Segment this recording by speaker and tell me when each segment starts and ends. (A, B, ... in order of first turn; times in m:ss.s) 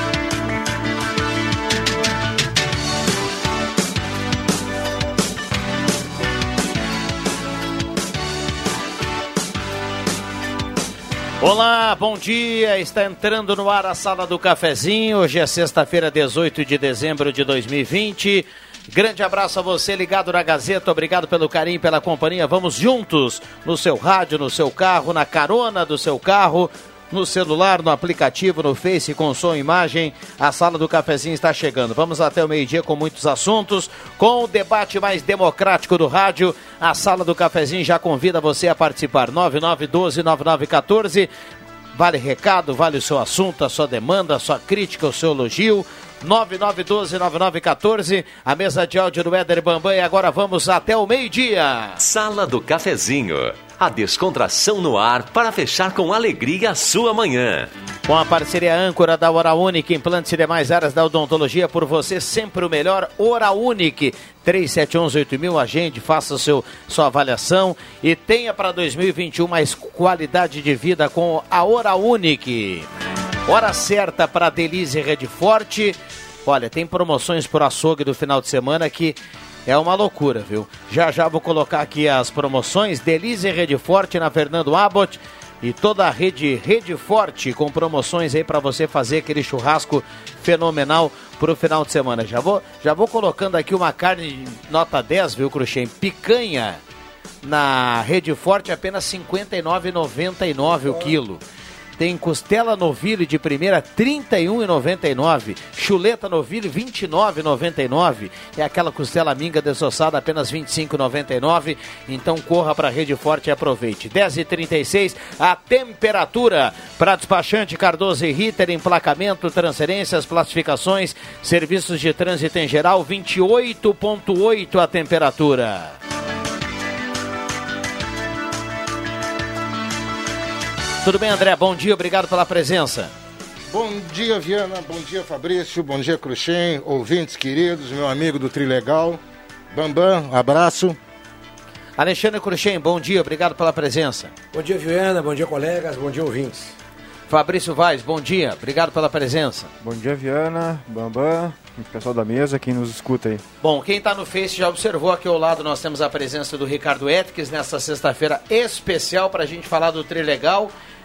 0:11.4-0:41.3 A
0:41.9-0:52.0 A
0:52.0-0:57.7 B
0:58.1-1:12.9 A
1:13.4-1:36.8 A
1:37.4-1:41.4 A
1:42.0-2:05.9 A
2:11.0-2:13.1 A
2:13.7-2:19.2 C
2:19.7-2:21.0 C
2:22.0-2:24.3 A
2:24.5-2:26.7 D
2:27.3-2:29.7 A
2:29.8-2:33.4 E
2:33.6-2:40.7 A